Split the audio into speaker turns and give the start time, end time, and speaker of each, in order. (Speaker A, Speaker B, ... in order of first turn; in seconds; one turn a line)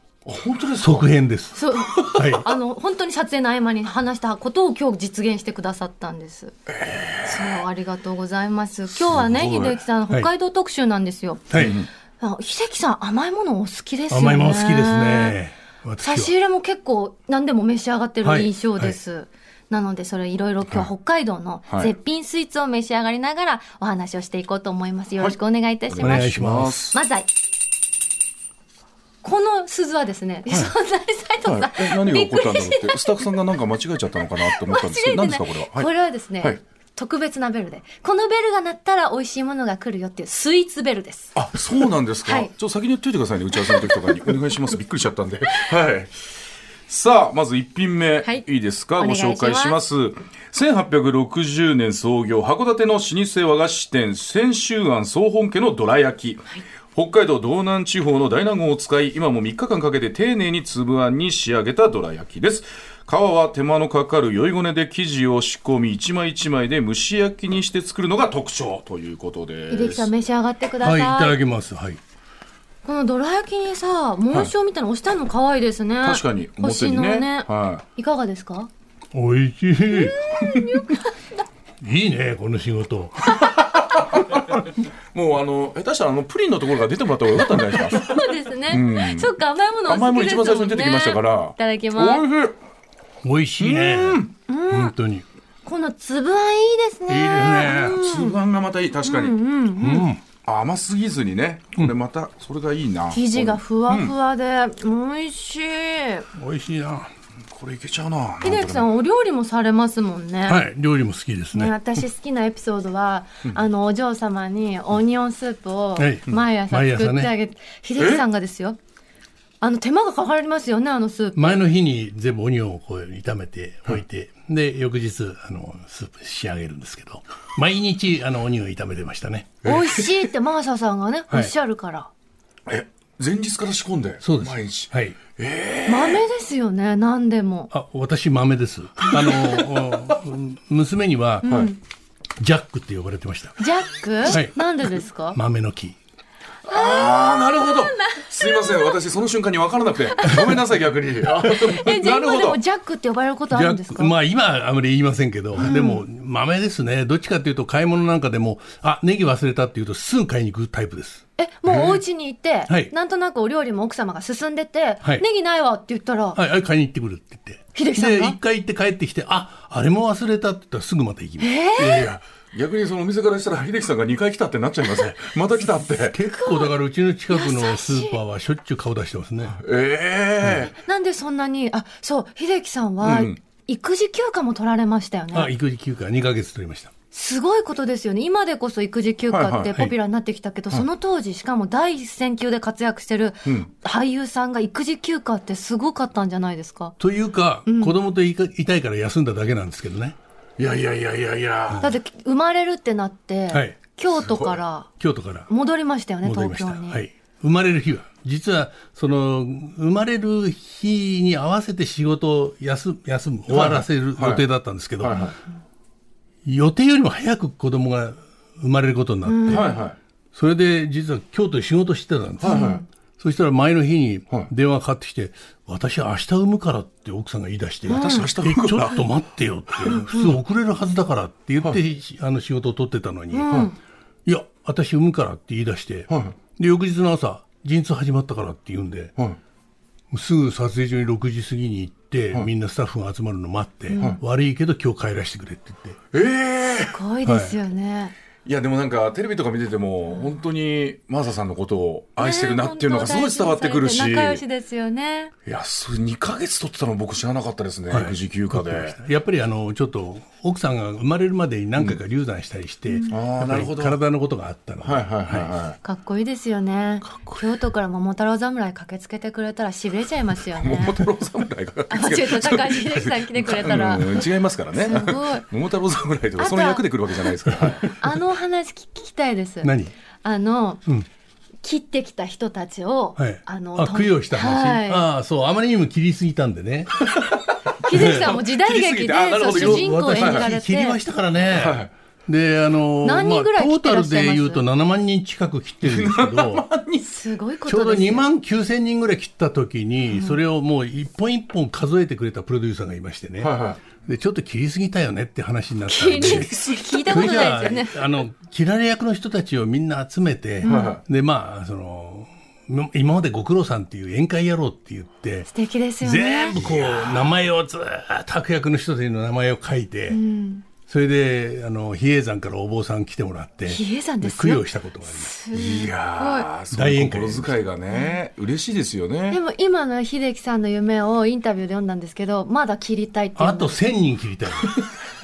Speaker A: 0.2-1.1
Speaker B: 0.8-2.5
Speaker C: 1.5-6.5
Speaker A: 1.9-2.3
Speaker A: 6.7-7.6
Speaker C: 7.2-15.3
Speaker A: 8.9-9.8
Speaker A: 11.6-11.9
Speaker B: 14.1-16.3
Speaker C: 16.0-26.3
Speaker B: 18.2-18.9
Speaker A: 25.9-27.0
Speaker B: 26.0-26.9
Speaker C: 26.9-27.3
Speaker C: 29.2-33.2
Speaker A: 30.5-30.7
Speaker A: 31.4-35.9
Speaker C: 34.4-41.4
Speaker A: 41.3-46.1
Speaker C: 42.2-42.5
Speaker C: 43.6-44.3
Speaker A: 46.9-70.1
Speaker C: 49.0-49.8
Speaker C: 69.7-71.3
Speaker B: 70.8-72.0
Speaker C: 72.8-78.7
Speaker A: 76.0-77.8
Speaker B: 79.1-80.2
Speaker C: 79.9-81.4
Speaker B: 81.8-83.4
Speaker A: 83.9-89.3
Speaker C: 87.7-92.2
Speaker A: 89.8-92.6
Speaker B: 93.2-95.2
Speaker A: 93.6-94.3
Speaker C: 94.5-94.9
Speaker C: 95.7-98.4
Speaker B: 97.1-98.0
Speaker A: 98.0-99.3
Speaker C: 99.0-100.1
Speaker B: 99.8-100.2
Speaker A: 100.4-104.1
Speaker C: 103.1-106.3
Speaker B: 106.3-107.1
Speaker A: 107.5-108.9
Speaker C: 108.4-110.6
Speaker B: 110.5-111.7
Speaker C: 111.5-118.8
Speaker B: 116.0-117.3
Speaker A: 118.0-118.2
Speaker C: 119.6-121.5
Speaker B: 121.3-129.6
Speaker A: 129.6-130.1
Speaker C: 129.6-132.1
Speaker A: 132.7-136.2
Speaker B: 134.2-135.2
Speaker C: 135.8-137.7
Speaker B: 137.7-141.5
Speaker A: 139.2-139.5
Speaker C: 141.4-141.8
Speaker A: 141.4-141.7
Speaker B: 142.4-143.6
Speaker C: 143.6-145.4
Speaker B: 144.2-144.6
Speaker B: 145.3-145.9
Speaker A: 146.7-152.6
Speaker C: 146.7-149.0
Speaker C: 150.1-150.5
Speaker C: 151.4-154.1
Speaker B: 153.5-161.2
Speaker C: 155.6-156.0
Speaker C: 161.4-166.4
Speaker A: 161.7-162.0
Speaker B: 166.3-171.5
Speaker C: 167.7-168.4
Speaker C: 171.4-172.1
Speaker A: 171.8-176.2
Speaker B: 176.1-179.6
Speaker C: 176.3-176.7
Speaker C: 177.3-178.2
Speaker A: 179.6-180.8
Speaker C: 180.8-185.5
Speaker A: 183.0-183.4
Speaker B: 185.3-186.9
Speaker C: 187.1-196.9
Speaker A: 189.3-189.8
Speaker B: 197.0-200.2
Speaker C: 197.7-197.9
Speaker A: 200.6-201.8
Speaker B: 201.7-202.0
Speaker C: 201.8-204.9
Speaker B: 203.5-203.8
Speaker A: 204.1-204.6
Speaker B: 205.0-205.5
Speaker C: 205.5-207.0
Speaker B: 206.2-215.3
Speaker A: 213.5-214.4
Speaker A: 215.0-215.3
Speaker B: 216.4-219.7
Speaker C: 219.2-219.7
Speaker A: 219.5-220.0
Speaker B: 220.3-233.5
Speaker A: 222.4-222.8
Speaker C: 222.4-222.8
Speaker A: 227.9-229.0
Speaker C: 227.9-228.3
Speaker C: 230.0-230.4
Speaker C: 233.3-233.8
Speaker B: 234.2-239.1
Speaker A: 236.1-236.3
Speaker B: 240.1-246.0
Speaker C: 243.9-244.2
Speaker A: 243.9-244.2
Speaker A: 246.1-247.0
Speaker C: 246.9-248.1
Speaker B: 247.2-247.5
Speaker A: 248.4-254.4
Speaker C: 252.2-255.3
Speaker A: 255.4-259.0
Speaker B: 257.9-265.5
Speaker C: 262.9-263.1
Speaker A: 263.1-264.0
Speaker A: 264.8-265.8
Speaker C: 265.8-271.0
Speaker A: 267.1-267.4
Speaker A: 270.5-278.0
Speaker C: 271.9-275.4
Speaker C: 276.4-277.3
Speaker C: 277.8-279.7
Speaker B: 279.6-279.9
Speaker C: 280.2-280.8
Speaker C: 281.6-285.1
Speaker B: 283.2-286.9
Speaker A: 287.1-290.5
Speaker C: 287.8-291.0
Speaker B: 287.9-288.3
Speaker B: 289.5-296.6
Speaker A: 291.5-291.9
Speaker C: 293.0-294.6
Speaker A: 295.8-297.1
Speaker C: 297.1-298.2
Speaker B: 297.7-306.5
Speaker C: 300.1-300.4
Speaker A: 303.4-303.8
Speaker C: 305.9-308.0
Speaker A: 306.1-307.4
Speaker B: 307.1-315.5
Speaker C: 310.6-311.0
Speaker A: 310.6-311.0
Speaker C: 315.5-316.6
Speaker B: 316.0-320.2
Speaker A: 316.5-317.2
Speaker C: 320.1-320.6
Speaker B: 320.9-325.3
Speaker C: 323.7-326.5
Speaker A: 325.5-329.4
Speaker B: 326.7-327.5
Speaker C: 329.3-333.8
Speaker B: 333.4-334.7